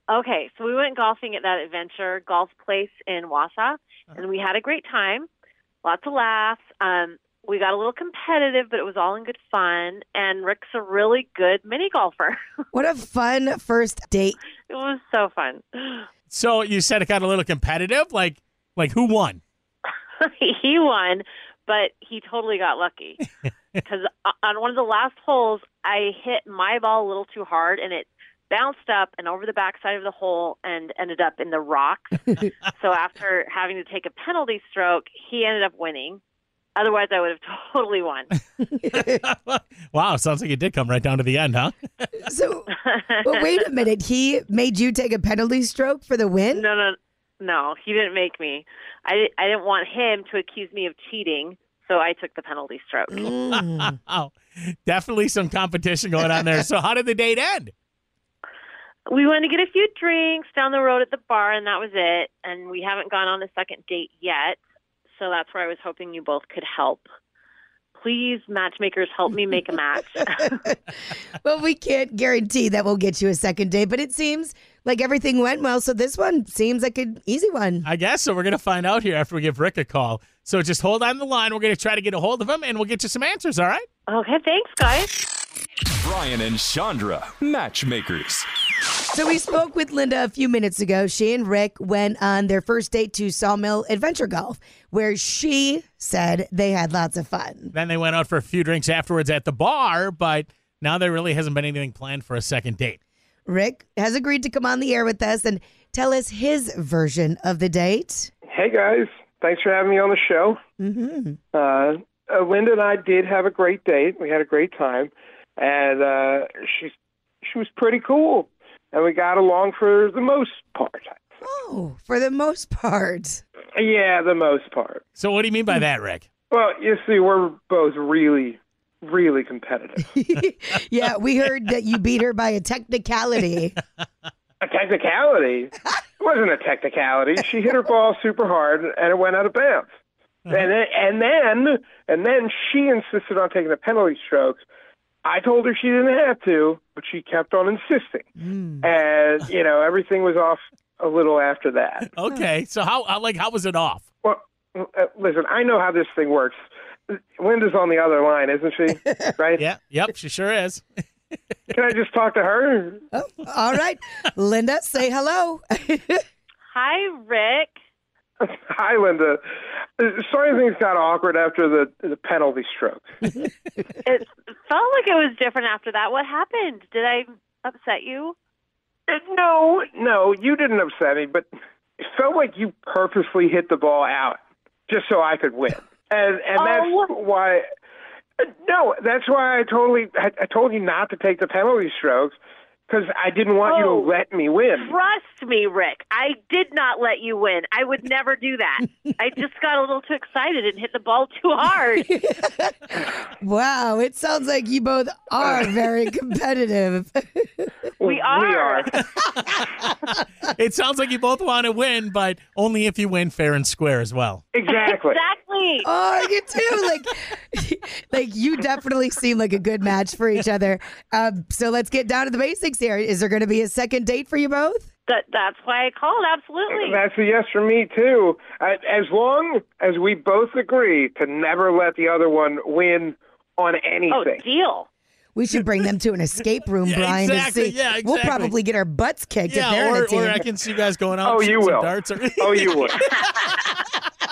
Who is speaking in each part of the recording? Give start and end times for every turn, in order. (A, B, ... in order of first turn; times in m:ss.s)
0:00.1-0:05.3 A
0:05.8-0:12.4 A
0:12.7-0:14.4 B
0:14.7-0:16.1 A
0:16.3-0:19.4 C
0:20.2-0:23.2 A
0:23.8-0:36.2 A
0:36.8-0:38.3 A
0:38.8-0:39.2 B
0:38.9-0:42.1 C
0:42.2-0:46.6 B
0:42.7-0:43.4 A
0:46.5-0:53.3 A
0:53.1-0:53.9 B
0:53.5-0:57.7 C
0:59.1-1:04.6 A
1:05.1-1:07.1 A
1:08.0-1:10.6 A
1:10.3-1:17.9 B
1:17.8-1:23.9 C
1:24.1-1:25.1 A
1:26.0-1:28.5 D
1:29.0-1:37.7 B
1:37.7-1:43.0 C
1:43.5-1:48.3 B
1:48.5-1:50.6 E
1:50.8-1:51.4 B
1:51.5-1:56.9 E
1:57.4-2:01.2 E
2:01.4-2:03.4 B
2:03.8-2:05.0 E
2:05.2-2:06.2 C
2:06.5-2:10.1 E
2:10.1-2:13.8 B
2:14.6-2:19.9 E
2:20.5-2:24.6 E
2:25.2-2:28.3 E
2:28.4-2:28.9 B
2:28.8-2:32.1 E
2:32.1-2:34.0 C
2:34.2-2:36.6 E
2:37.1-2:39.6 E
2:39.6-2:40.8 C
2:41.7-2:43.0 E
2:43.1-2:46.2 B
2:46.7-2:47.7 A
2:48.4-2:49.4 E
2:50.0-2:53.2 E
2:54.0-2:58.4 A
2:59.1-3:01.5 E
3:02.0-3:07.6 E
3:06.6-3:07.1 A
3:08.4-3:12.4 E
3:12.9-3:15.0 E
3:13.6-3:14.1 A
3:14.7-3:22.1 A
3:22.1-3:27.7 B
3:28.0-3:29.0 E
3:28.0-3:29.0 A
3:29.0-3:34.5 C
3:34.5-3:35.2 E
3:34.7-3:35.9 A
3:35.8-3:44.9 B
3:45.1-3:47.0 A
3:46.7-3:54.4 E
3:54.1-3:54.9 A
3:55.4-4:00.4 B
3:56.8-3:58.6 C
3:59.5-4:03.8 C
4:01.2-4:03.0 E
4:02.9-4:03.7 A